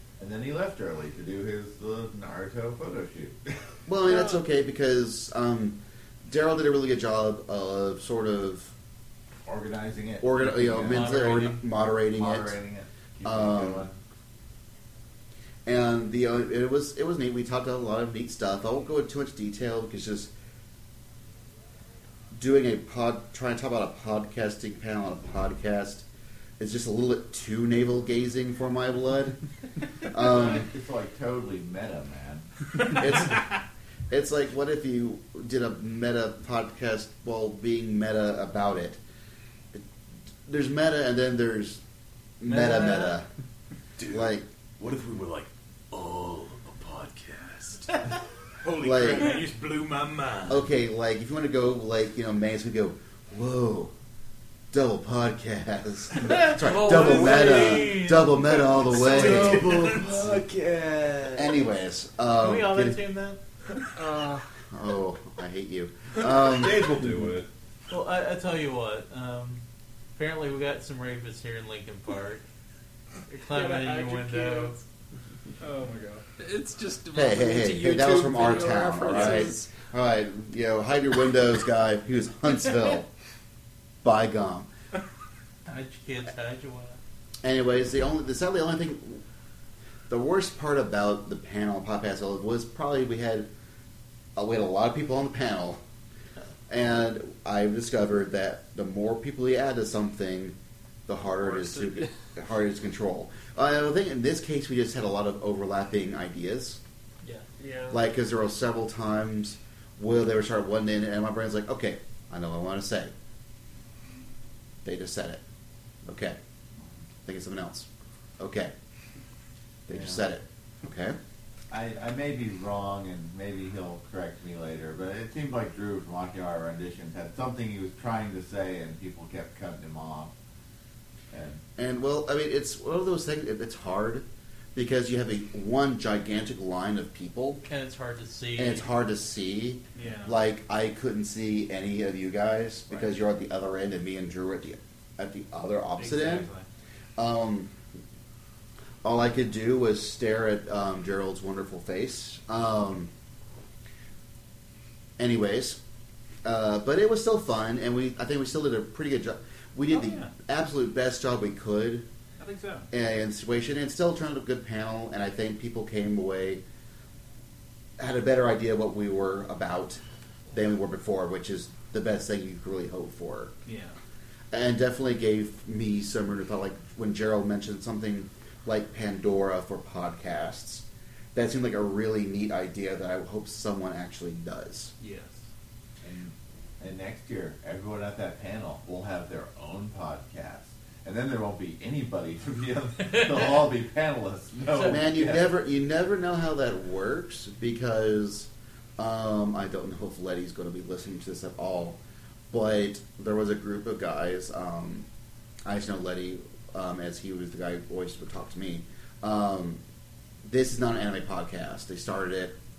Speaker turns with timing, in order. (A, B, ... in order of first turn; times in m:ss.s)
0:00.2-0:03.6 A
0:03.9-0:08.7 B
0:09.4-0:11.2 A
0:10.2-0:12.6 B
0:10.8-0:11.6 C
0:12.1-0:14.0 A
0:13.2-0:13.9 B
0:15.7-0:20.3 B
0:22.3-0:26.1 B
0:26.6-0:29.4 B
0:30.0-0:30.7 B
0:30.2-0:32.5 A
0:33.0-0:33.5 B
0:34.1-0:39.0 B
0:40.5-0:41.8 B
0:42.4-0:43.3 B
0:42.5-0:43.2 C
0:44.0-0:47.9 D
0:44.1-0:44.5 B
0:48.6-0:50.7 E
0:48.8-0:49.3 B
0:50.5-0:53.9 B
0:54.7-1:00.0 B
0:56.2-1:00.2 E
0:56.4-0:58.5 C
0:59.2-1:01.5 D
1:01.4-1:03.0 B
1:02.4-1:03.4 C
1:04.0-1:04.4 F
1:04.7-1:06.9 B
1:06.2-1:07.5 D
1:07.9-1:09.6 C
1:10.2-1:12.4 C
1:13.3-1:14.8 C
1:13.4-1:14.8 F
1:15.6-1:16.2 E
1:16.4-1:19.7 F
1:17.1-1:23.1 B
1:24.0-1:24.7 B
1:25.7-1:27.0 C
1:27.4-1:29.2 B
1:30.1-1:33.5 B
1:34.4-1:35.8 B
1:36.7-1:40.6 B
1:41.1-1:46.8 B
1:41.4-1:42.1 F
1:47.3-1:48.0 F
1:47.9-1:53.1 B
1:54.8-1:55.4 B
1:56.0-1:56.4 B
1:57.2-1:57.9 B
1:58.4-1:58.7 B
1:59.9-2:01.2 B
1:59.9-2:00.2 A
2:01.7-2:10.3 A
2:11.3-2:11.6 A
2:11.8-2:17.6 B
2:17.7-2:18.9 C
2:18.6-2:26.5 B
2:20.0-2:20.4 E
2:26.0-2:26.7 E
2:27.2-2:27.7 B
2:29.0-2:33.1 B
2:35.2-2:35.8 B
2:36.4-2:42.1 B
2:39.9-2:40.3 E
2:42.4-2:42.9 E
2:42.9-2:46.6 B
2:48.0-2:50.0 B
2:50.5-2:53.5 B
2:53.7-2:54.0 E
2:54.5-3:04.9 B
3:05.0-3:05.4 E
3:06.0-3:15.5 A
3:13.1-3:13.5 C
3:14.7-3:15.0 C
3:14.8-3:22.0 B
3:22.5-3:25.1 B
3:25.7-3:29.8 B
3:30.4-3:32.6 B